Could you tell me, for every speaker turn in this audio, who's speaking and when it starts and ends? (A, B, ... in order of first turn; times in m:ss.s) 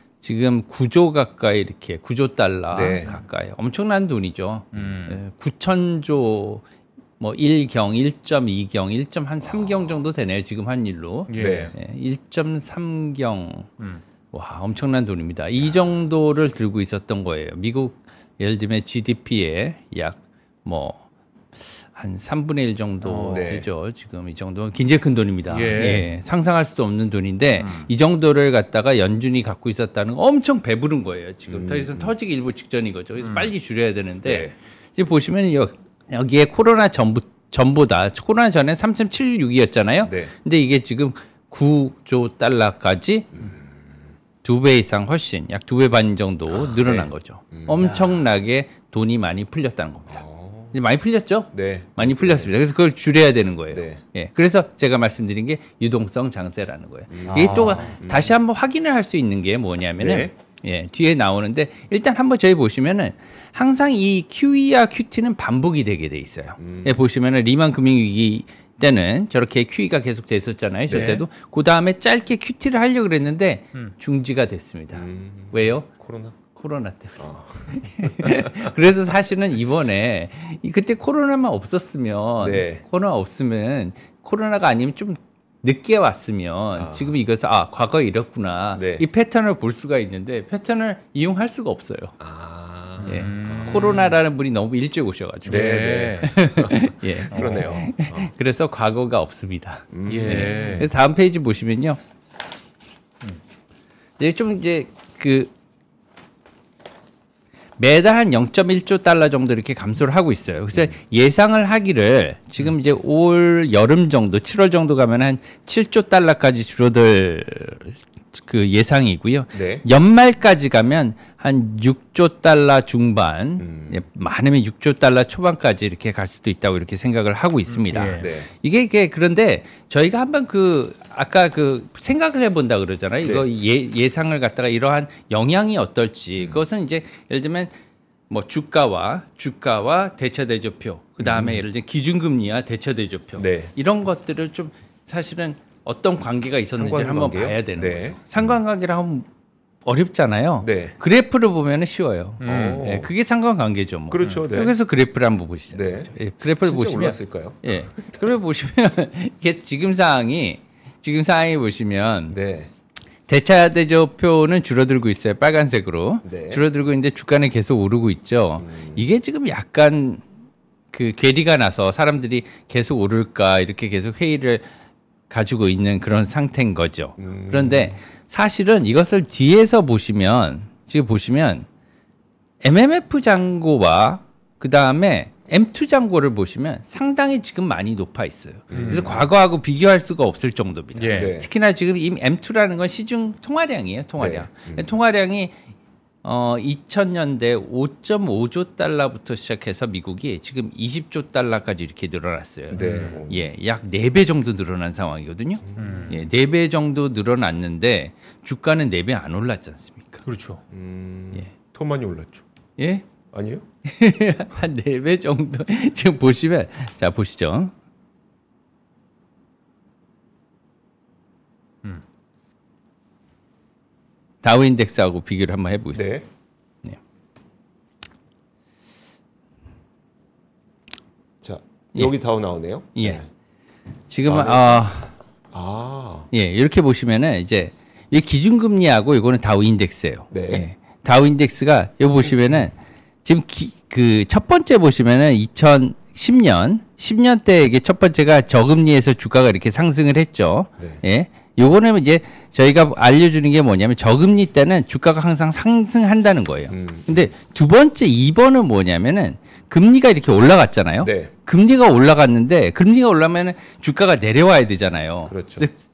0:00.2-0:06.6 A
0:02.7-0:03.1 B
0:02.8-0:03.2 C
0:04.7-0:05.2 C
0:07.2-0:13.7 A
0:09.4-0:09.9 B
0:11.3-0:11.7 C
0:11.4-0:11.7 B
0:14.3-0:21.0 A
0:21.7-0:43.5 A
0:23.0-0:23.5 C
0:23.3-0:23.7 B
0:25.5-0:26.1 C
0:27.6-0:27.9 C
0:31.5-0:32.1 B
0:33.2-0:33.5 C
0:34.2-0:34.5 B
0:40.0-0:40.3 B
0:43.3-0:43.8 B
0:44.4-1:15.9 A
0:46.5-0:47.8 B
0:47.8-0:48.2 C
0:50.1-0:50.8 B
0:51.5-0:52.5 B
0:53.7-0:54.0 B
0:57.1-0:58.3 B
0:57.3-0:58.0 C
1:00.0-1:00.3 B
1:06.6-1:06.9 B
1:10.9-1:11.2 B
1:10.9-1:11.2 C
1:14.9-1:16.4 B
1:16.5-1:32.2 A
1:17.2-1:18.7 B
1:22.4-1:22.8 B
1:26.8-1:27.2 B
1:28.7-1:29.1 B
1:32.2-1:33.9 B
1:33.0-1:34.2 C
1:33.0-1:42.0 A
1:35.4-1:38.3 B
1:35.5-1:36.3 C
1:37.3-1:37.7 C
1:39.9-1:40.8 B
1:40.1-1:40.9 C
1:44.2-1:45.5 A
1:47.8-2:17.7 A
1:59.5-1:59.8 B
2:03.6-2:04.0 B
2:07.7-2:08.3 C
2:08.2-2:08.5 B
2:16.4-2:16.6 B
2:18.3-2:29.3 A
2:21.2-2:21.6 B
2:23.4-2:23.7 B
2:26.7-2:28.6 B
2:29.8-2:42.4 A
2:30.6-2:31.0 B
2:32.4-2:32.8 C
2:32.4-2:33.1 B
2:34.1-2:34.8 B
2:35.7-2:38.2 B
2:42.3-2:42.7 B
2:43.3-2:50.2 A
2:46.2-2:46.6 B
2:48.6-2:49.1 B
2:50.9-2:54.6 A
2:55.3-3:01.7 A
2:57.2-2:58.0 B
3:02.6-3:15.6 A
3:08.7-3:09.3 B
3:08.7-3:09.1 C
3:10.9-3:11.3 C
3:11.1-3:11.5 B
3:14.2-3:14.9 B
3:16.2-3:30.2 A
3:22.7-3:23.5 B
3:22.8-3:23.2 C
3:25.6-3:26.1 B
3:25.8-3:26.2 C
3:30.2-3:30.6 C
3:30.7-3:32.4 B
3:32.8-3:33.0 A
3:33.3-3:33.6 B
3:33.8-3:37.7 A
3:44.4-3:46.2 A
3:45.9-3:46.3 B
3:51.4-3:53.3 B
3:53.0-3:53.2 A
3:54.1-3:55.1 A
3:54.3-3:54.8 B
3:55.5-3:56.3 B
3:56.3-4:25.8 A
4:00.3-4:00.7 B
4:16.7-4:17.3 B
4:21.0-4:21.3 B
4:25.3-4:25.7 B